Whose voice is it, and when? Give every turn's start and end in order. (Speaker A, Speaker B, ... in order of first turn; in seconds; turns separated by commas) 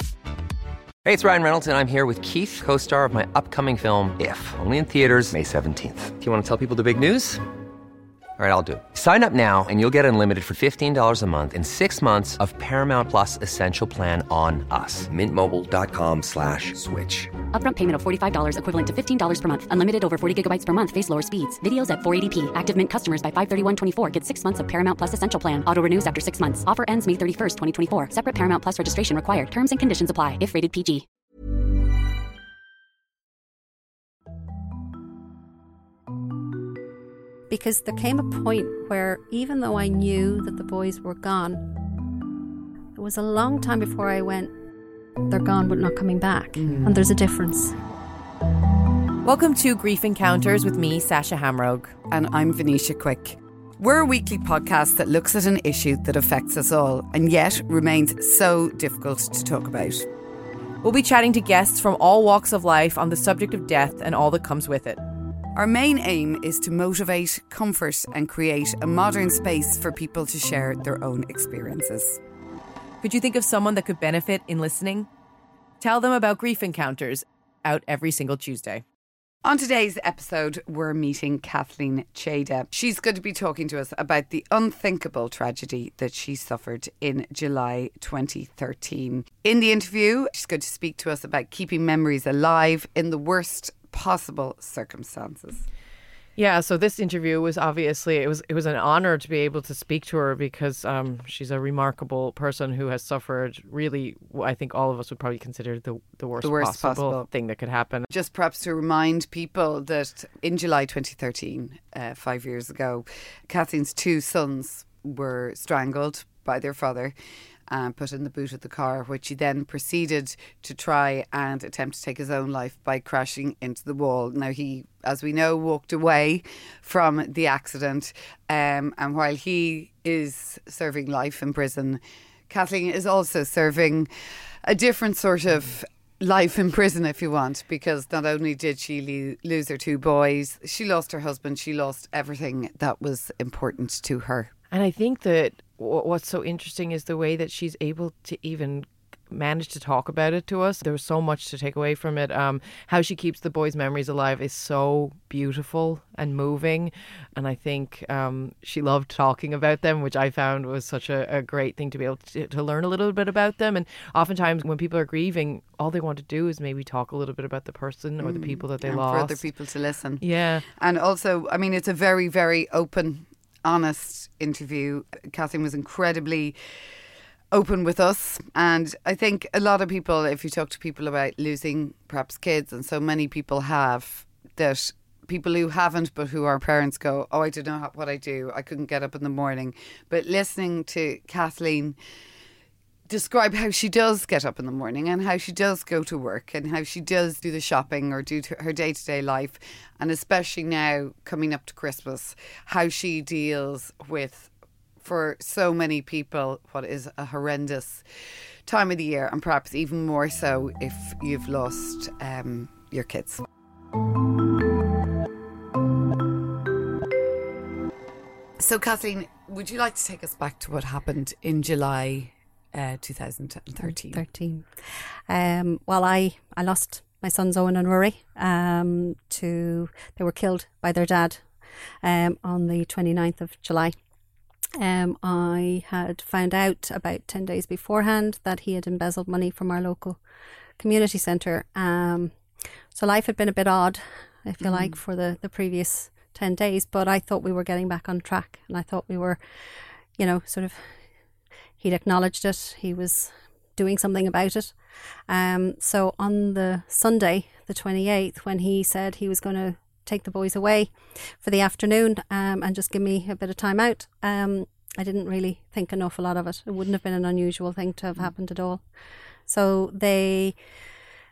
Speaker A: 1.0-7.4, Speaker A: 8.4-17.4, Speaker B: 17.4-31.0, Speaker C: 37.5-41.6, Speaker C: 43.0-44.5, Speaker C: 45.3-47.7, Speaker D: 46.5-46.9, Speaker E: 46.7-46.9, Speaker E: 49.2-52.0, Speaker D: 52.1-60.0, Speaker E: 60.8-65.0, Speaker D: 65.5-72.2, Speaker E: 73.0-75.1, Speaker E: 75.8-78.8, Speaker D: 79.4-95.7, Speaker E: 96.3-108.1, Speaker D: 106.4-107.3, Speaker D: 108.1-117.1, Speaker D: 117.7-134.1, Speaker D: 134.6-144.5, Speaker E: 144.7-169.4, Speaker D: 168.2-176.6, Speaker E: 170.2-170.7, Speaker D: 177.5-192.0, Speaker D: 193.1-208.0, Speaker D: 208.7-213.4, Speaker D: 218.6-224.2, Speaker C: 223.8-231.5, Speaker C: 232.0-233.9, Speaker C: 234.8-240.2, Speaker C: 240.8-242.3, Speaker C: 242.9-249.4, Speaker D: 244.6-244.9, Speaker C: 250.2-250.8, Speaker C: 251.8-254.7, Speaker C: 255.3-268.8, Speaker C: 269.5-270.5